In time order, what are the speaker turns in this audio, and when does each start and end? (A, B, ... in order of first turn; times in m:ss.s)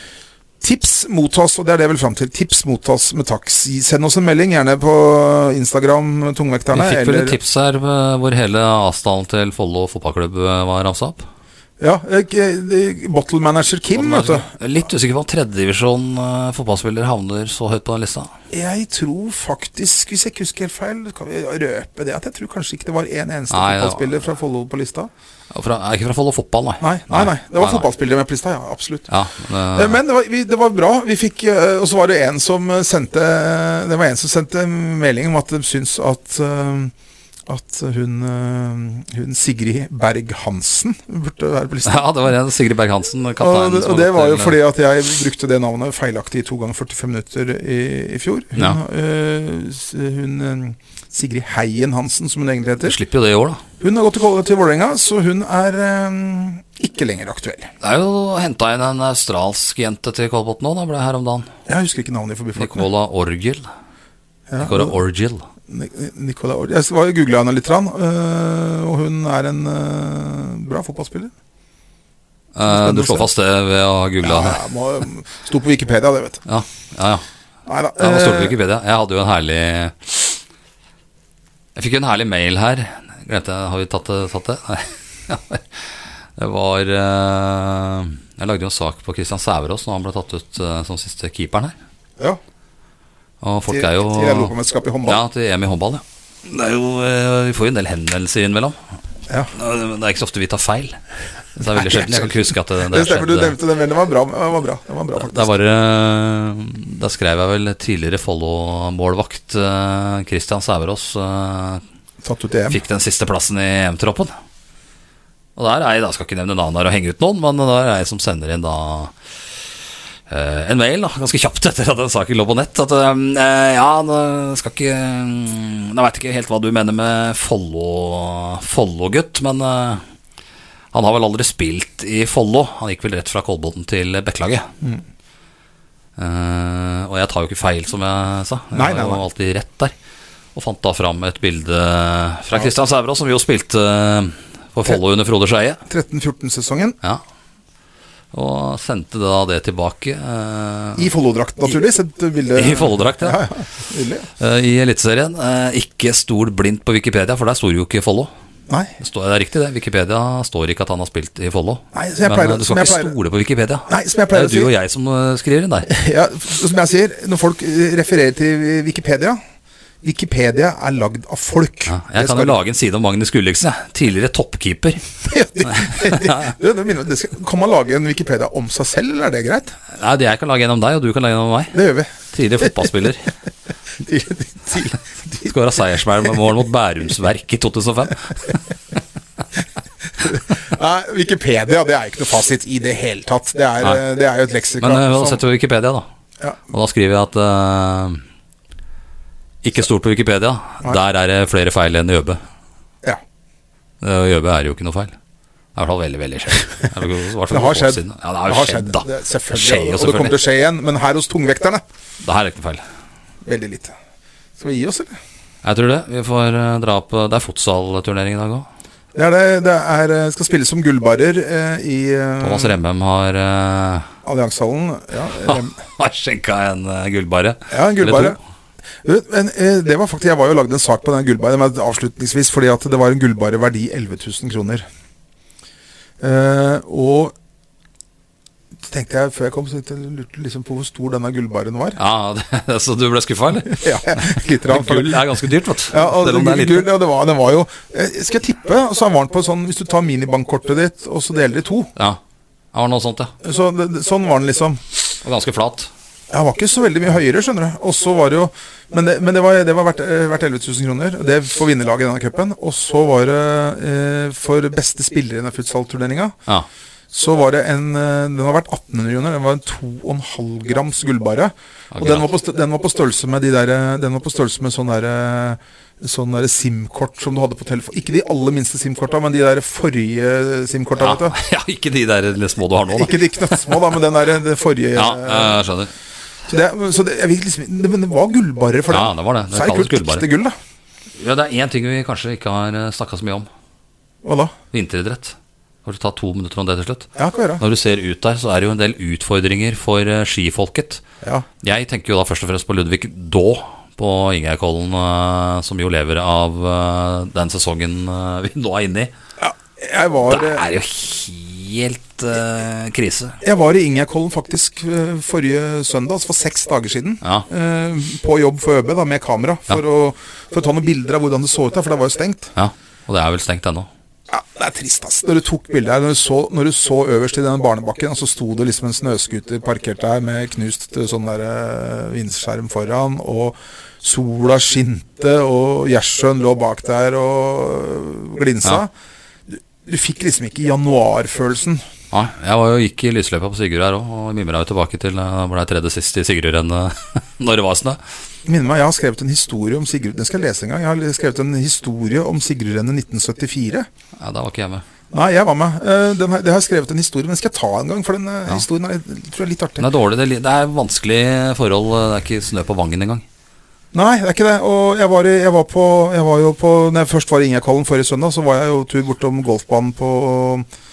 0:00.6-0:07.4 A
0:06.7-0:11.2 B
0:11.8-0:14.5 A
0:13.9-0:18.3 B
0:18.5-0:25.1 A
0:23.5-0:24.1 B
0:25.5-0:27.8 B
0:26.8-0:29.1 A
0:29.1-0:30.0 B
0:29.7-0:36.9 A
0:37.5-0:42.0 A
0:41.8-0:44.6 B
0:43.4-0:53.0 A
0:52.8-0:53.6 B
0:53.8-0:57.7 A
0:57.8-1:01.5 B
1:01.7-1:02.9 A
1:02.6-1:03.7 B
1:04.5-1:04.9 A
1:04.6-1:05.4 B
1:05.7-1:11.3 A
1:12.5-1:14.6 B
1:12.6-1:13.3 A
1:14.2-1:16.4 A
1:16.4-1:17.2 B
1:17.6-1:18.6 A
1:18.0-1:20.4 B
1:21.8-1:31.7 B
1:33.4-1:34.5 B
1:33.7-1:35.2 A
1:35.0-1:38.8 B
1:39.5-1:41.0 B
1:41.5-1:43.6 B
1:41.7-1:45.5 A
1:45.1-1:51.8 B
1:52.2-1:52.8 A
1:52.7-1:54.3 B
1:55.6-1:59.1 B
2:00.3-2:10.0 B
2:10.9-2:14.7 B
2:16.2-2:19.9 B
2:18.7-2:19.2 A
2:20.5-2:25.8 B
2:25.9-2:27.0 A
2:28.3-2:31.1 B
2:31.0-2:34.3 A
2:32.6-2:33.4 B
2:34.4-2:38.3 B
2:38.7-2:38.9 A
2:39.0-2:45.9 B
2:41.9-2:43.1 A
2:43.9-2:44.7 A
2:45.9-2:49.4 A
2:50.0-2:52.6 A
2:51.9-2:56.5 B
2:55.2-2:59.8 A
2:59.9-3:03.3 B
3:01.7-3:02.9 A
3:04.0-3:05.5 A
3:05.4-3:08.6 B
3:10.2-3:15.4 A
3:14.8-3:16.1 B
3:16.7-3:18.2 B
3:19.6-3:22.4 B
3:24.0-3:25.1 B
3:25.7-3:30.3 B
3:27.5-3:31.8 A
3:32.2-3:32.8 B
3:33.4-3:33.9 A
3:34.6-3:35.2 A
3:35.6-3:38.7 B
3:39.1-3:42.8 A
3:42.4-3:44.1 B
3:44.2-3:45.7 A
3:45.4-3:48.4 B
3:47.7-3:48.4 A
3:49.0-3:54.8 A
3:56.2-3:57.3 A
3:58.8-4:02.0 A
4:02.0-4:06.9 B
4:03.6-4:11.9 A
4:12.7-4:13.3 B
4:13.4-4:15.0 A
4:15.2-4:15.9 B
4:16.3-4:26.4 A
4:27.1-4:41.4 A
4:31.9-4:32.2 B
4:41.0-4:43.8 B
4:42.9-4:45.6 A
4:45.0-4:45.9 B
4:46.5-4:50.6 A
4:48.9-4:50.2 B
4:51.2-4:53.5 B
4:54.2-4:54.5 A
4:54.7-5:01.0 B
4:57.2-4:57.6 A
5:01.6-5:09.1 B
5:09.4-5:10.6 A
5:10.3-5:13.4 B
5:13.4-5:22.5 A
5:22.5-5:23.9 B
5:24.3-5:38.9 A
5:39.5-5:41.8 A
5:42.1-5:48.0 B
5:48.4-5:53.9 A
5:54.2-5:54.8 B
5:55.1-5:59.8 A
5:59.8-6:03.2 B
6:03.9-6:10.7 A